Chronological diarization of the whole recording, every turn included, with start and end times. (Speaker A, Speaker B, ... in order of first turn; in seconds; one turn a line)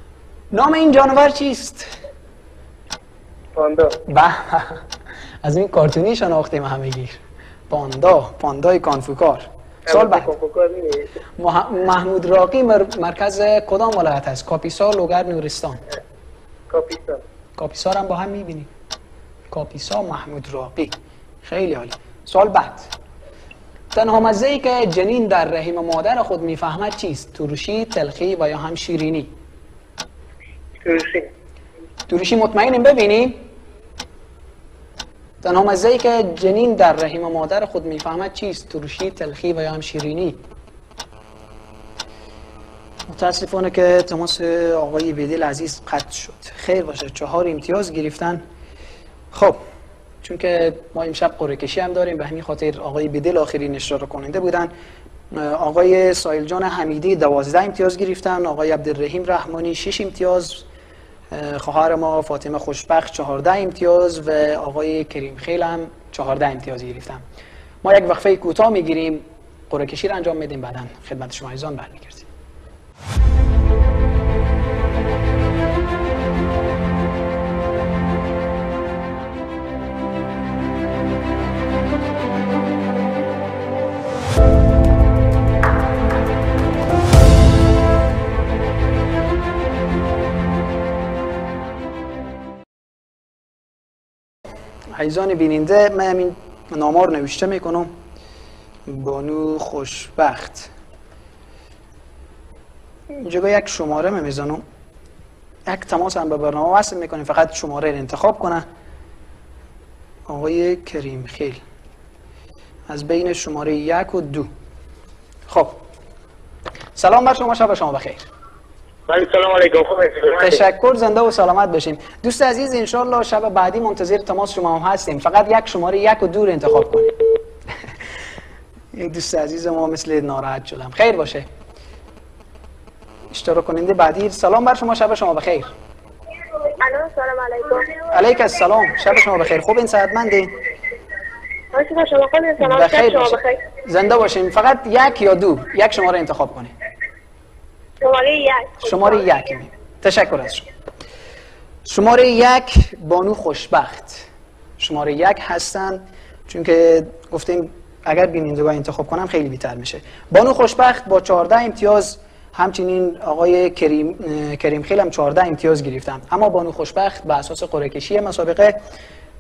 Speaker A: 0.5-1.9
Speaker B: 3.5-4.0
Speaker A: 4.1-4.8
Speaker A: 5.4-10.3
Speaker B: 9.9-11.1
Speaker A: 11.4-15.8
Speaker B: 16.7-17.2
Speaker A: 17.6-18.7
Speaker A: 19.5-22.9
Speaker A: 23.9-29.3
Speaker B: 30.8-31.3
Speaker A: 32.1-33.5
Speaker A: 35.4-40.4
Speaker A: 43.1-48.4
Speaker A: 49.3-49.6
Speaker A: 50.2-54.7
Speaker A: 55.3-60.7
Speaker A: 61.3-67.2
Speaker A: 67.8-72.3
Speaker A: 94.9-98.0
Speaker A: 98.9-100.7
Speaker A: 103.1-104.6
Speaker A: 105.7-108.7
Speaker A: 110.3-111.6
Speaker A: 112.9-114.5
Speaker A: 115.5-115.8
Speaker A: 117.0-118.3
Speaker B: 119.1-120.7
Speaker A: 120.4-127.1
Speaker A: 128.9-131.5
Speaker A: 133.3-135.7
Speaker C: 136.7-138.1
Speaker A: 138.1-140.5
Speaker C: 141.7-143.6
Speaker A: 142.6-146.7
Speaker C: 148.0-149.3
Speaker A: 148.8-150.7
Speaker A: 151.8-168.8